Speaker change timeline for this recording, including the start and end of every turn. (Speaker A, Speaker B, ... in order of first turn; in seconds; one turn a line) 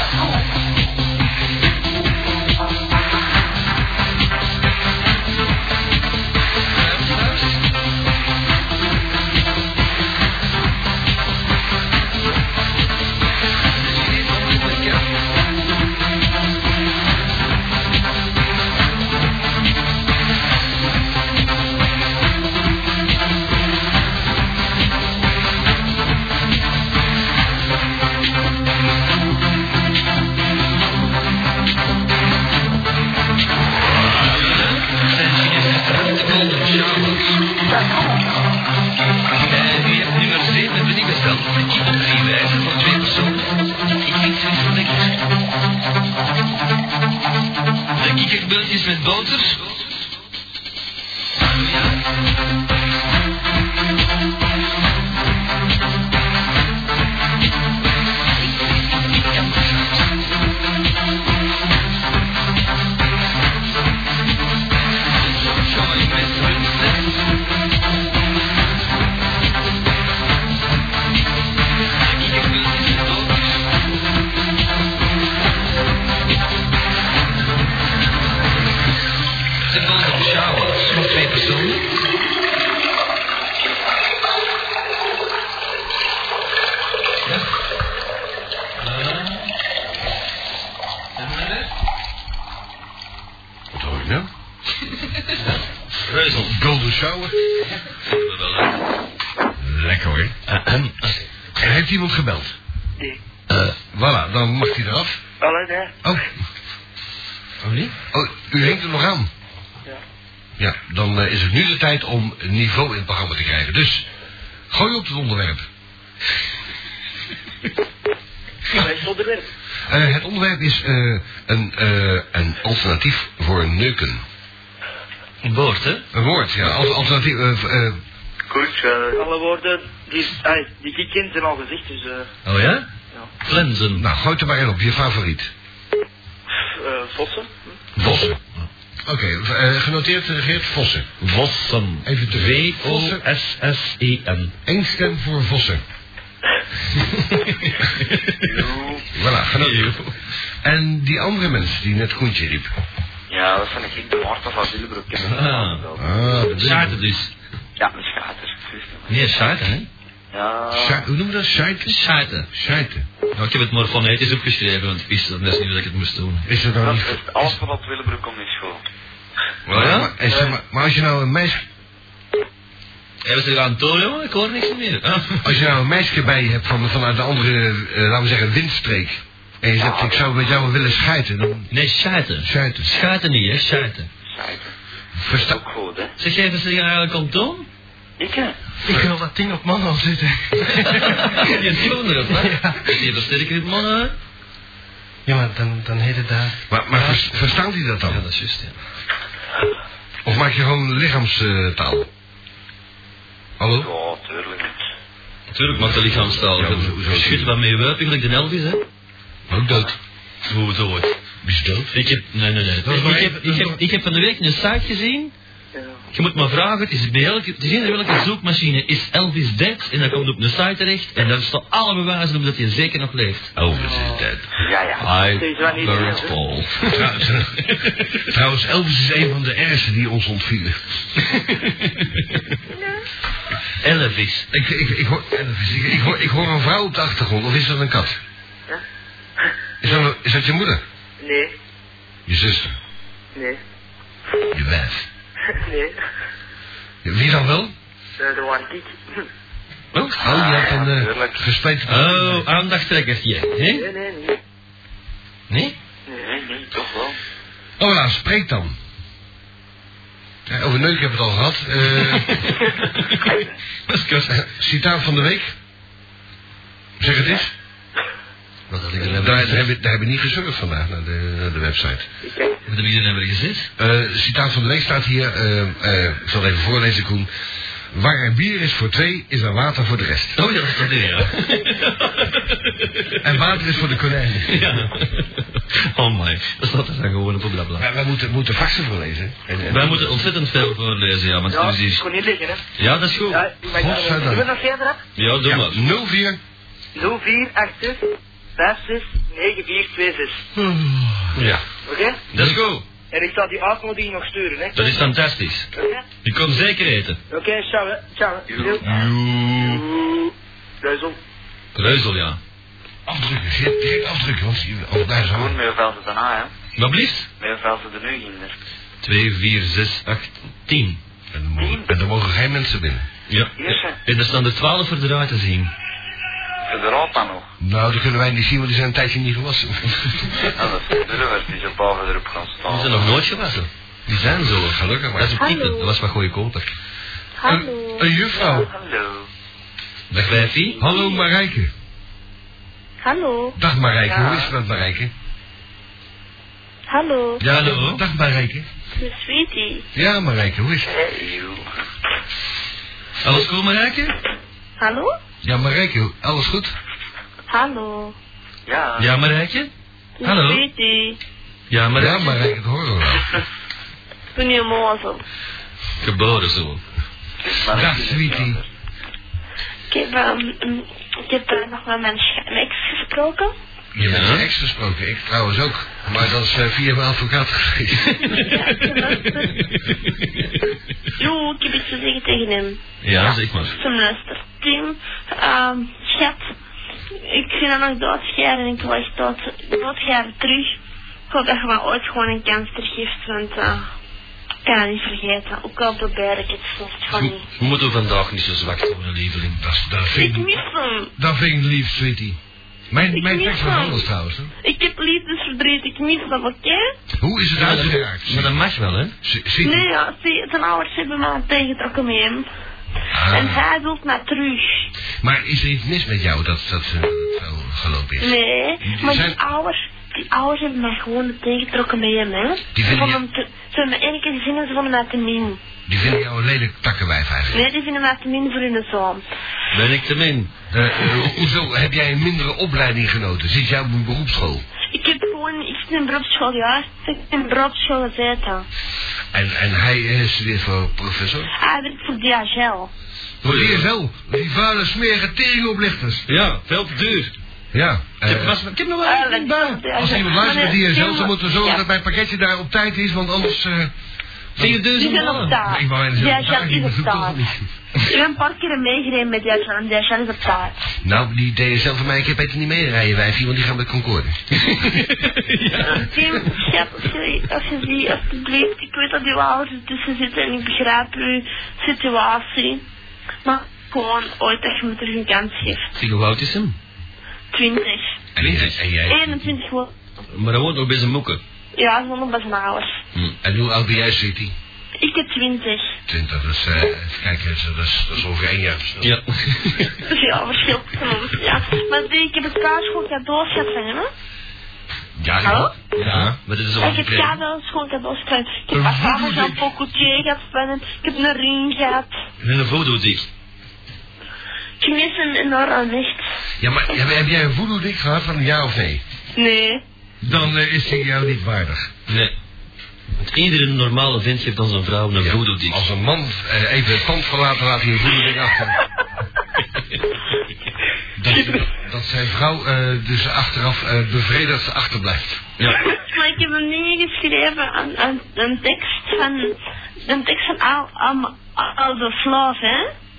Speaker A: 6.7-7.6
Speaker A: 13.7-15.2
Speaker A: 34.2-37.4
Speaker A: 39.5-45.1
Speaker A: 48.0-49.9
Speaker A: 51.4-52.0
Speaker A: 58.4-60.0
Speaker A: 65.2-67.2
Speaker A: 72.0-73.7
Speaker A: 79.7-82.0
Speaker A: 88.8-89.5
Speaker A: 91.2-91.7
Speaker B: 93.7-94.3
Speaker A: 96.0-96.5
Speaker B: 96.3-97.3
Speaker A: 97.9-98.8
Speaker B: 99.6-100.4
Speaker A: 100.5-101.2
Speaker B: 101.6-102.5
Speaker A: 103.5-103.8
Speaker B: 103.9-105.2
Speaker C: 105.4-106.0
Speaker B: 106.0-106.3
Speaker A: 107.6-107.9
Speaker B: 108.1-109.3
Speaker B: 110.6-114.1
Speaker B: 114.7-115.7
Speaker C: 118.7-119.4
Speaker B: 119.9-124.2
Speaker A: 125.4-126.0
Speaker B: 126.1-128.0
Speaker C: 128.5-132.3
Speaker A: 132.4-132.9
Speaker A: 133.4-134.1
Speaker B: 134.0-135.5
Speaker C: 136.6-137.8
Speaker B: 138.0-138.4
Speaker A: 138.0-138.7
Speaker B: 139.1-141.1
Speaker A: 141.2-144.5
Speaker B: 142.1-143.2
Speaker B: 144.7-145.8
Speaker A: 147.0-148.5
Speaker D: 148.4-149.1
Speaker B: 149.1-150.0
Speaker A: 149.6-150.2
Speaker B: 150.6-152.7
Speaker D: 153.3-156.1
Speaker A: 155.2-155.8
Speaker B: 156.0-157.0
Speaker A: 156.5-157.3
Speaker D: 157.8-159.2
Speaker A: 159.1-159.9
Speaker D: 160.3-161.1
Speaker B: 160.7-163.1
Speaker A: 161.9-162.5
Speaker A: 163.3-166.5
Speaker B: 166.5-167.6
Speaker D: 166.8-168.8
Speaker A: 169.7-170.1
Speaker B: 169.7-171.6
Speaker D: 170.3-170.6
Speaker A: 173.2-175.5
Speaker B: 175.4-181.7
Speaker D: 179.8-180.7
Speaker A: 181.7-184.1
Speaker B: 182.4-182.9
Speaker D: 184.3-184.7
Speaker B: 185.2-185.6
Speaker D: 185.3-186.1
Speaker A: 186.2-187.7
Speaker D: 188.2-188.6
Speaker E: 188.9-191.5
Speaker A: 190.8-194.1
Speaker E: 192.3-192.9
Speaker E: 195.3-196.6
Speaker B: 196.7-198.2
Speaker A: 196.9-197.3
Speaker A: 198.1-198.8
Speaker B: 200.2-202.1
Speaker B: 203.6-203.9
Speaker D: 203.7-204.8
Speaker A: 205.5-208.8
Speaker B: 205.8-207.6
Speaker B: 209.5-210.0
Speaker A: 210.4-211.2
Speaker B: 211.4-212.0
Speaker A: 211.9-215.3
Speaker B: 212.8-213.8
Speaker C: 215.7-216.0
Speaker A: 216.1-224.3
Speaker B: 223.6-224.4
Speaker C: 223.8-224.2
Speaker D: 224.6-225.1
Speaker A: 225.0-228.2
Speaker C: 225.3-226.4
Speaker B: 226.9-227.7
Speaker B: 228.3-230.8
Speaker A: 231.2-232.4
Speaker A: 233.8-234.5
Speaker B: 234.5-238.2
Speaker C: 239.4-240.0
Speaker B: 239.8-240.8
Speaker C: 241.2-241.5
Speaker B: 242.3-242.8
Speaker C: 243.3-243.6
Speaker B: 244.5-245.1
Speaker C: 245.5-246.0
Speaker B: 247.0-247.7
Speaker C: 248.2-249.2
Speaker A: 249.9-250.2
Speaker B: 250.2-252.5
Speaker D: 250.2-251.4
Speaker A: 251.9-253.9
Speaker C: 253.7-254.4
Speaker A: 255.5-255.8
Speaker D: 256.2-257.2
Speaker B: 257.8-258.8
Speaker B: 260.5-262.4
Speaker A: 261.9-263.2
Speaker A: 263.9-264.4
Speaker B: 264.3-265.5
Speaker B: 267.0-267.5
Speaker A: 268.7-269.7
Speaker B: 269.0-272.1
Speaker C: 272.2-272.6
Speaker A: 272.7-273.7
Speaker B: 273.8-277.3
Speaker B: 277.9-280.4
Speaker A: 280.4-283.5
Speaker B: 283.2-284.8
Speaker A: 284.5-287.9
Speaker B: 287.8-290.2
Speaker A: 289.7-292.0
Speaker C: 291.5-292.6
Speaker A: 292.8-293.5
Speaker C: 293.3-295.0
Speaker B: 293.7-294.5
Speaker A: 295.2-295.8
Speaker B: 295.4-296.4
Speaker C: 296.9-300.4
Speaker B: 300.6-301.4
Speaker A: 301.4-301.6
Speaker C: 301.9-302.2
Speaker A: 302.3-302.9
Speaker B: 302.3-302.6
Speaker C: 303.1-305.0
Speaker A: 304.8-305.7
Speaker C: 305.7-306.0
Speaker A: 306.2-307.2
Speaker C: 307.3-311.2
Speaker A: 308.5-309.8
Speaker A: 311.8-312.4
Speaker B: 313.1-315.6
Speaker D: 315.3-316.5
Speaker A: 316.8-317.3
Speaker D: 317.4-318.6
Speaker A: 319.0-321.0
Speaker B: 321.3-323.1
Speaker D: 321.6-321.9
Speaker A: 323.3-325.7
Speaker D: 323.6-324.0
Speaker D: 326.7-327.5
Speaker B: 327.6-330.3
Speaker D: 330.6-333.1
Speaker A: 332.7-336.7
Speaker B: 334.4-335.4
Speaker F: 335.4-335.9
Speaker F: 337.4-338.1
Speaker B: 337.4-338.7
Speaker D: 338.3-339.3
Speaker B: 340.1-341.7
Speaker A: 340.1-340.8
Speaker F: 340.8-341.1
Speaker F: 343.0-343.6
Speaker B: 343.6-345.1
Speaker F: 346.9-347.4
Speaker A: 347.4-348.0
Speaker B: 347.4-348.7
Speaker F: 349.0-349.9
Speaker B: 349.9-350.9
Speaker D: 350.9-351.6
Speaker A: 353.2-354.2
Speaker F: 354.8-355.1
Speaker B: 355.4-356.7
Speaker F: 357.5-358.2
Speaker D: 358.7-359.1
Speaker A: 359.0-359.7
Speaker F: 360.2-361.2
Speaker A: 360.2-360.6
Speaker A: 361.7-362.3
Speaker B: 361.9-363.4
Speaker F: 364.4-365.2
Speaker A: 366.0-366.8
Speaker D: 367.4-368.7
Speaker B: 367.7-368.6
Speaker F: 369.9-373.5
Speaker B: 373.9-378.5
Speaker A: 374.0-374.5
Speaker A: 378.1-380.5
Speaker F: 378.4-379.6
Speaker F: 381.2-386.5
Speaker A: 383.0-383.7
Speaker F: 387.1-393.9
Speaker F: 394.6-397.4
Speaker A: 397.3-399.6
Speaker B: 399.6-400.6
Speaker F: 400.1-401.1
Speaker B: 401.2-402.4
Speaker B: 402.9-404.5
Speaker F: 403.1-404.0
Speaker F: 404.6-406.9
Speaker B: 407.2-408.6
Speaker A: 407.6-409.1
Speaker B: 409.2-409.9
Speaker F: 409.6-412.5
Speaker B: 413.1-413.6
Speaker F: 413.3-414.9
Speaker B: 415.2-419.4
Speaker F: 418.2-425.6
Speaker B: 422.8-423.2
Speaker B: 425.9-427.6
Speaker F: 427.5-429.2
Speaker A: 429.7-430.5
Speaker B: 430.7-434.6
Speaker F: 434.9-438.7
Speaker B: 439.3-441.5
Speaker F: 441.6-442.9
Speaker B: 443.4-446.3
Speaker A: 443.4-443.9
Speaker A: 446.3-447.3
Speaker B: 447.7-453.9
Speaker A: 448.2-449.3
Speaker F: 449.1-451.8
Speaker B: 454.6-457.6
Speaker A: 454.6-455.6
Speaker F: 454.9-457.4
Speaker F: 458.0-460.8
Speaker B: 461.0-464.4
Speaker A: 464.7-466.4
Speaker F: 465.8-472.9
Speaker F: 473.4-475.9
Speaker A: 475.9-476.8
Speaker F: 477.5-478.2
Speaker B: 478.4-479.5
Speaker A: 478.4-478.8
Speaker F: 479.1-479.9
Speaker A: 480.3-481.4
Speaker F: 481.8-483.0
Speaker B: 483.4-484.6
Speaker F: 485.0-486.0
Speaker B: 486.1-489.2
Speaker A: 489.0-490.0
Speaker F: 490.1-494.1
Speaker B: 495.2-496.4
Speaker F: 495.4-495.7
Speaker A: 495.9-497.4
Speaker F: 496.8-502.1
Speaker B: 498.7-499.6
Speaker A: 502.4-503.3
Speaker F: 504.8-506.2
Speaker B: 506.6-509.0
Speaker F: 509.4-509.8
Speaker B: 510.2-511.9
Speaker A: 512.1-512.3
Speaker A: 513.2-515.8
Speaker B: 515.2-518.8
Speaker B: 521.2-525.5
Speaker F: 525.8-532.9